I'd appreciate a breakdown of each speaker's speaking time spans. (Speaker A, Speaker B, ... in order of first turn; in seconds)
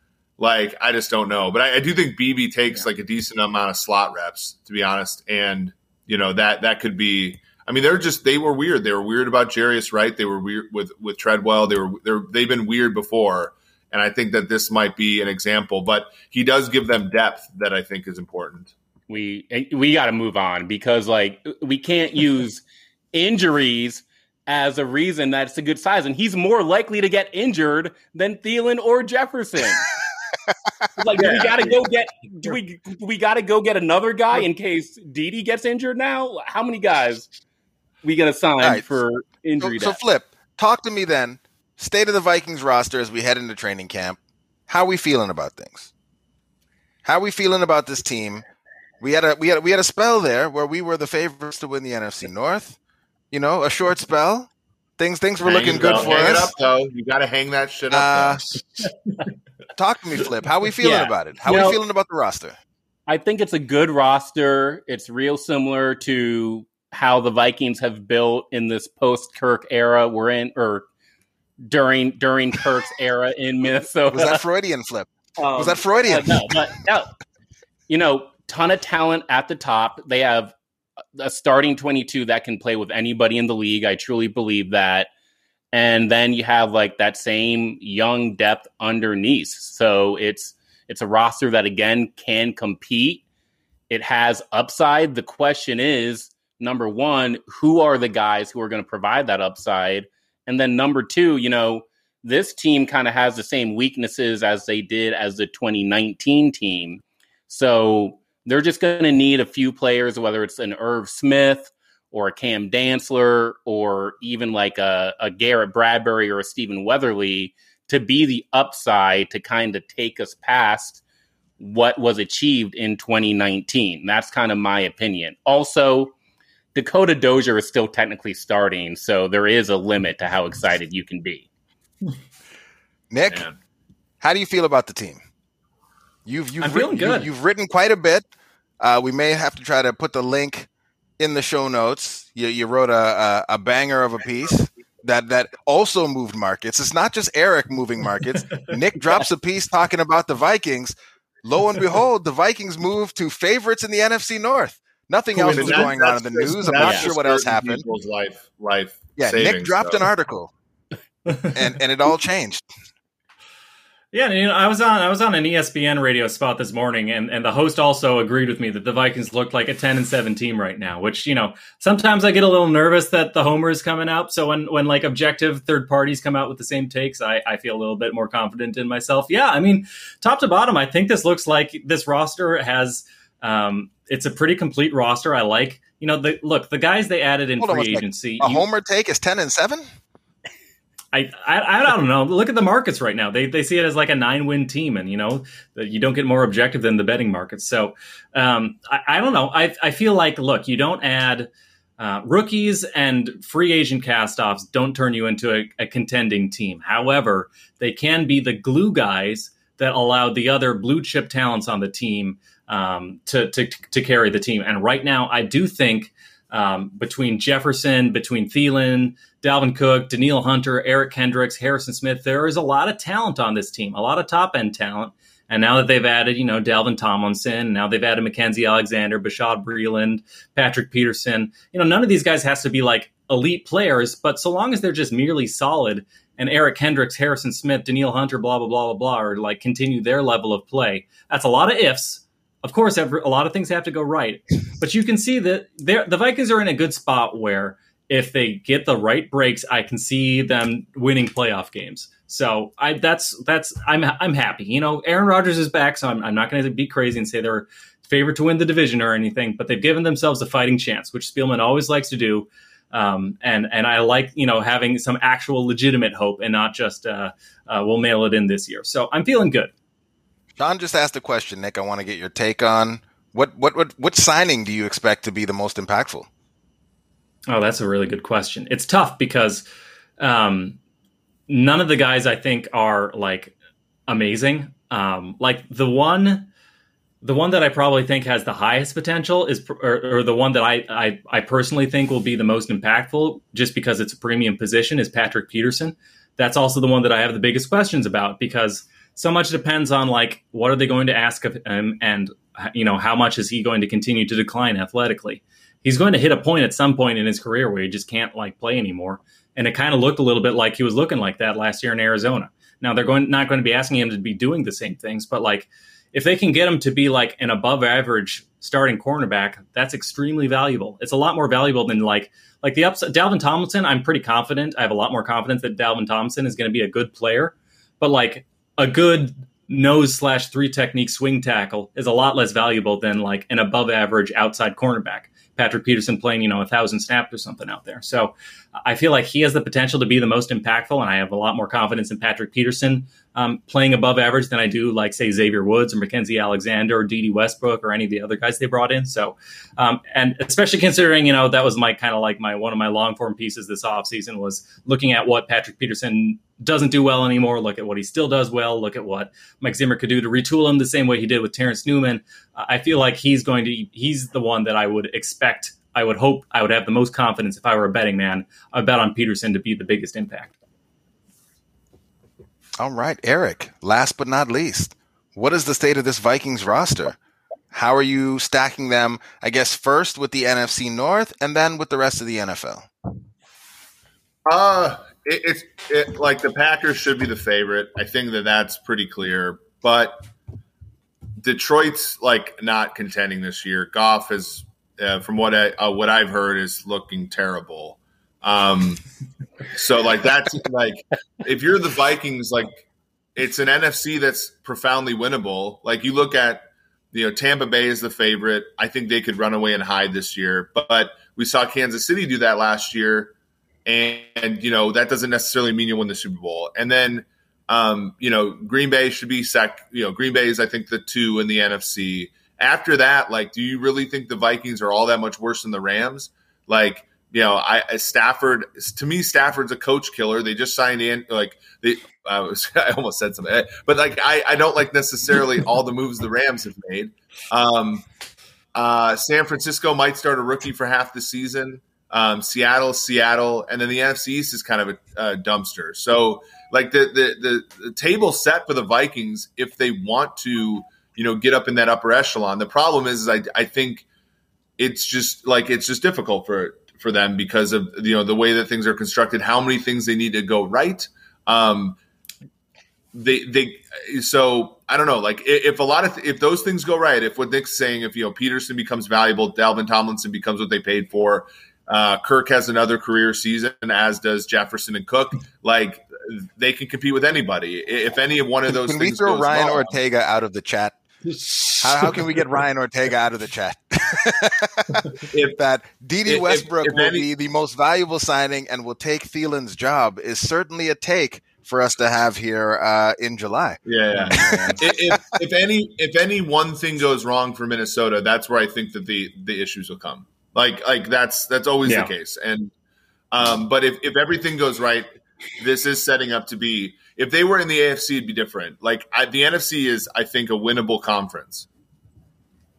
Speaker A: 0.4-18.7, 55.4-58.4, 133.3-133.5, 155.5-160.1, 384.4-390.2, 391.4-399.0, 399.7-402.8, 403.4-413.3, 413.9-438.0, 438.7-454.0, 454.8-462.0, 463.1-479.9, 485.3-485.6, 486.2-487.3, 493.9-502.7, 503.3-505.1, 505.6-511.7
Speaker B: 19.1-29.9, 31.0-37.3, 38.0-40.0, 61.5-61.8, 63.1-70.9, 71.6-74.4, 75.4-77.1, 77.9-80.5, 81.2-85.1, 85.7-93.2, 93.9-121.0, 121.6-126.1, 126.7-131.5, 156.8-157.1, 494.3-494.8
Speaker C: 31.0-31.4, 38.6-39.0, 39.6-45.9, 47.0-48.4, 49.0-52.8, 53.3-56.5, 57.9-58.9, 59.8-62.6, 74.1-76.5, 133.1-133.4, 134.2-135.2, 136.2-138.2, 138.8-157.8, 159.2-160.5, 161.4-162.7, 187.6-189.8, 270.6-276.3, 372.8-377.2, 377.7-382.9, 478.7-481.0, 481.8-495.2
Speaker D: 136.6-137.3, 164.1-188.7, 191.1-269.7, 277.5-279.6, 280.2-280.8, 281.5-283.6, 284.1-286.5, 287.2-338.3, 338.8-370.5, 481.4-481.7, 501.9-502.1